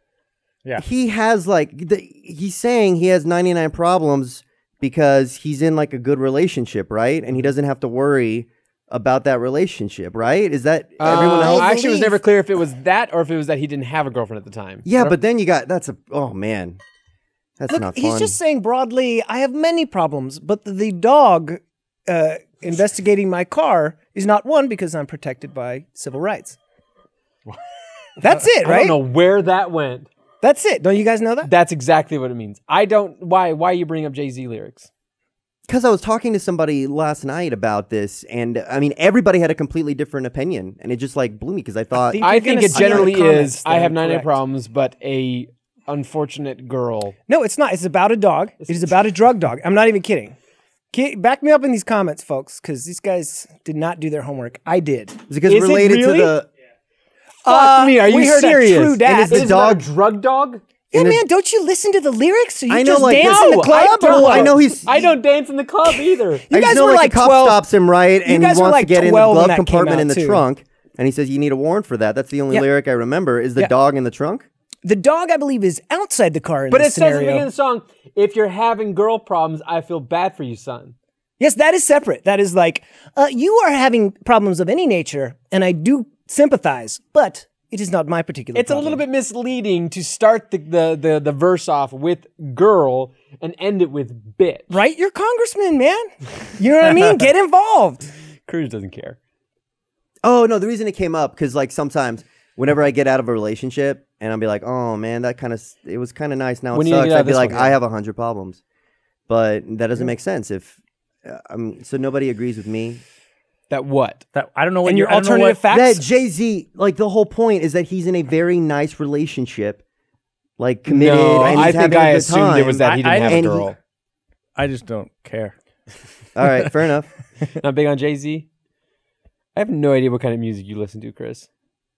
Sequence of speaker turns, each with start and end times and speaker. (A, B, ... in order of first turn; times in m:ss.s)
0:00.8-0:11.9 A
0:11.0-0:15.2 B
0:11.0-0:12.2 C
0:14.8-0:16.8 A
0:17.6-0:18.4 A
0:17.7-0:26.6 C
0:28.2-0:29.0 C
0:28.6-0:30.1 B
0:30.4-0:31.5 C
0:31.4-0:34.9 B
0:35.7-0:43.1 A
0:42.0-0:44.4 C
0:42.2-0:47.2 B
0:47.3-0:50.4 C
0:50.9-0:55.3 C
0:55.3-0:56.5 A
0:55.5-0:56.4 B
0:57.4-0:59.6 C
0:57.4-1:00.6 B
0:59.0-0:59.9 A
1:00.9-1:04.8 C
1:00.9-1:01.2 A
1:02.7-1:05.0 A
1:03.2-1:06.4 B
1:06.5-1:07.6 C
1:06.5-1:14.5 A
1:08.2-1:10.4 C
1:14.8-1:17.5 C
1:16.7-1:20.9 B
1:21.4-1:29.0 C
1:28.6-1:34.8 B
1:34.7-1:38.1 C
1:38.5-1:39.2 B
1:40.2-1:48.6 A
1:46.7-1:47.8 B
1:49.3-1:53.0 A
1:53.7-1:54.2 B
1:54.3-1:55.6 D
1:54.8-1:56.0 C
1:55.7-1:59.8 A
2:00.6-2:03.7 A
2:00.9-2:03.8 B
2:02.8-2:03.6 D
2:04.6-2:05.6 D
2:06.4-2:07.1 A
2:06.4-2:06.7 D
2:07.6-2:08.5 B
2:09.6-2:11.5 B